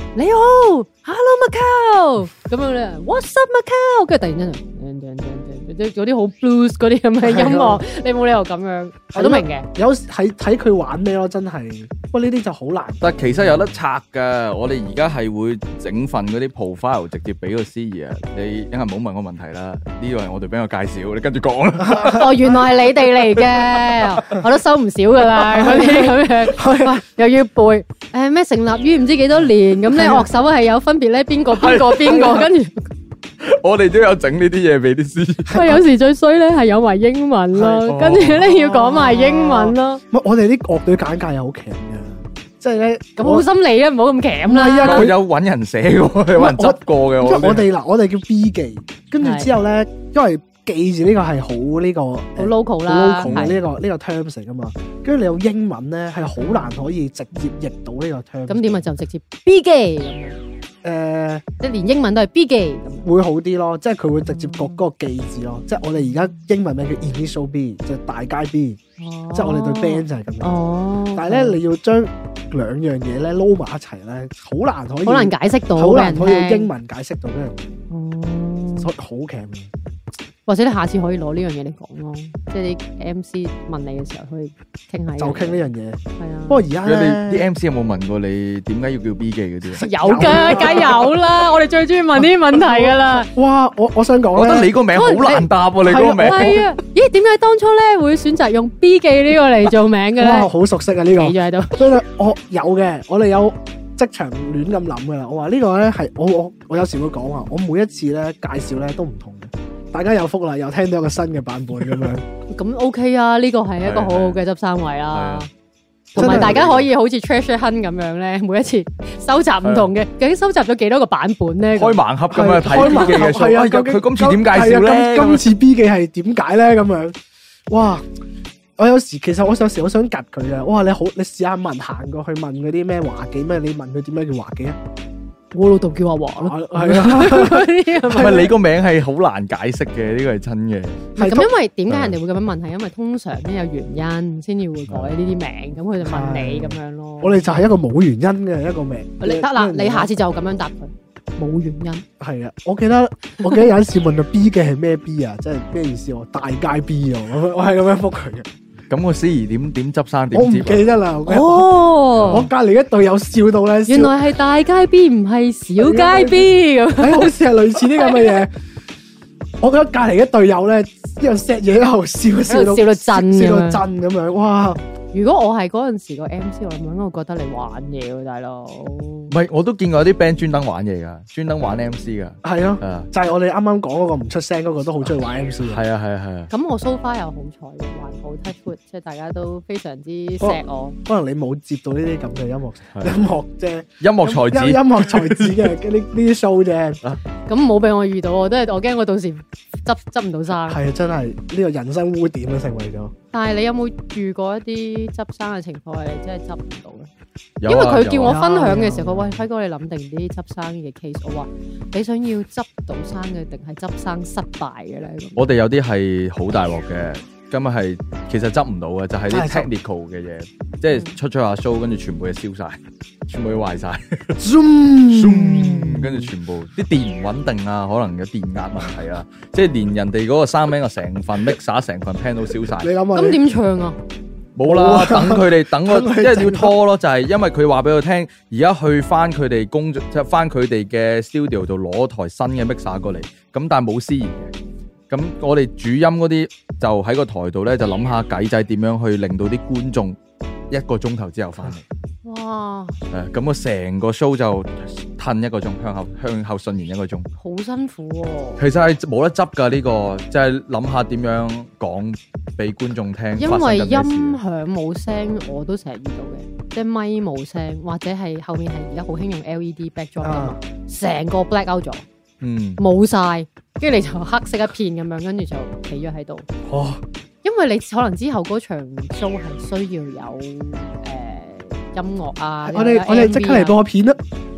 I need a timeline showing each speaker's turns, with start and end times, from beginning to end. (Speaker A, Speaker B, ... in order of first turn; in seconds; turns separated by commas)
Speaker A: 0.2-9.7, Speaker B: 7.2-7.8, Speaker B: 9.1-13.8, Speaker C: 13.0-22.3, Speaker B: 21.9-22.3, Speaker A: 22.1-32.8, Speaker B: 25.4-27.0, Speaker B: 29.9-30.2, Speaker C: 31.5-32.4, Speaker B: 32.1-32.5, Speaker C: 33.4-35.6, Speaker B: 35.5-35.8, Speaker A: 35.5-40.0, Speaker B: 37.6-37.8, Speaker C: 37.9-38.4, Speaker B: 38.4-43.5, Speaker A: 43.2-45.1, Speaker B: 44.5-45.2, Speaker C: 44.9-47.7, Speaker B: 46.4-58.9, Speaker A: 49.2-49.5, Speaker A: 52.4-53.5, Speaker C: 53.2-53.5, Speaker A: 56.4-56.7, Speaker A: 58.5-60.4, Speaker B: 60.8-61.4, Speaker A: 61.6-63.1, Speaker B: 63.0-68.8, Speaker A: 64.3-64.8, Speaker A: 66.0-66.4, Speaker A: 69.0-71.6, Speaker B: 69.3-70.6, Speaker B: 71.2-77.7, Speaker A: 75.0-76.7, Speaker A: 77.9-78.9, Speaker B: 78.8-79.7, Speaker A: 80.5-85.7, Speaker B: 85.2-87.5, Speaker A: 86.2-86.7, Speaker C: 86.8-90.8, Speaker B: 89.8-91.1, Speaker A: 89.8-93.3, Speaker B: 92.5-94.7, Speaker C: 94.3-96.7, Speaker A: 95.0-95.5, Speaker B: 95.8-96.6, Speaker A: 96.0-100.5, Speaker B: 100.2-112.2, Speaker A: 101.2-101.8, Speaker A: 112.5-115.5, Speaker C: 113.8-114.4, Speaker C: 115.1-115.5, Speaker B: 116.1-116.7, Speaker C: 116.2-116.9, Speaker A: 116.2-122.0, Speaker C: 119.6-119.9, Speaker C: 121.8-125.5, Speaker B: 122.3-127.2, Speaker A: 122.7-123.3, Speaker B: 127.7-128.1, Speaker B: 128.8-134.8, Speaker A: 135.5-138.5, Speaker B: 136.4-138.5, Speaker C: 138.1-141.1, Speaker B: 141.2-141.5, Speaker A: 141.2-147.7, Speaker C: 144.9-145.2, Speaker B: 146.0-150.1, Speaker A: 149.2-152.1, Speaker B: 152.2-158.5, Speaker C: 158.9-160.9, Speaker B: 160.3-161.7, Speaker A: 161.3-162.5, Speaker C: 162.2-162.4, Speaker B: 162.3-164.1, Speaker A: 163.9-167.3, Speaker B: 165.8-168.5, Speaker A: 167.9-168.4, Speaker B: 169.6-174.8, Speaker A: 172.5-173.8, Speaker A: 175.1-179.3, Speaker C: 179.3-183.1, Speaker B: 182.4-185.8, Speaker C: 185.6-186.5, Speaker A: 186.5-191.0, Speaker B: 190.4-197.0, Speaker C: 192.9-193.3, Speaker C: 194.0-195.7, Speaker A: 197.5-200.8, Speaker B: 200.7-203.1, Speaker A: 203.3-207.1, Speaker C: 207.6-208.4, Speaker A: 207.7-215.5, Speaker B: 208.2-209.4, Speaker C: 215.4-224.4, Speaker B: 219.3-219.7, Speaker A: 220.9-221.2, Speaker B: 224.4-226.3, Speaker C: 225.1-232.9, Speaker B: 232.8-233.4, Speaker A: 233.2-234.0, Speaker C: 234.6-244.5, Speaker B: 234.7-236.7, Speaker C: 245.1-250.2, Speaker C: 250.7-251.8, Speaker A: 252.2-253.0, Speaker C: 253.1-257.3, Speaker A: 257.4-258.6, Speaker C: 258.6-264.4, Speaker A: 263.4-272.1, Speaker B: 270.2-270.6, Speaker C: 272.4-272.8, Speaker A: 272.8-276.5, Speaker B: 276.7-277.0, Speaker A: 277.4-283.8, Speaker B: 282.7-284.2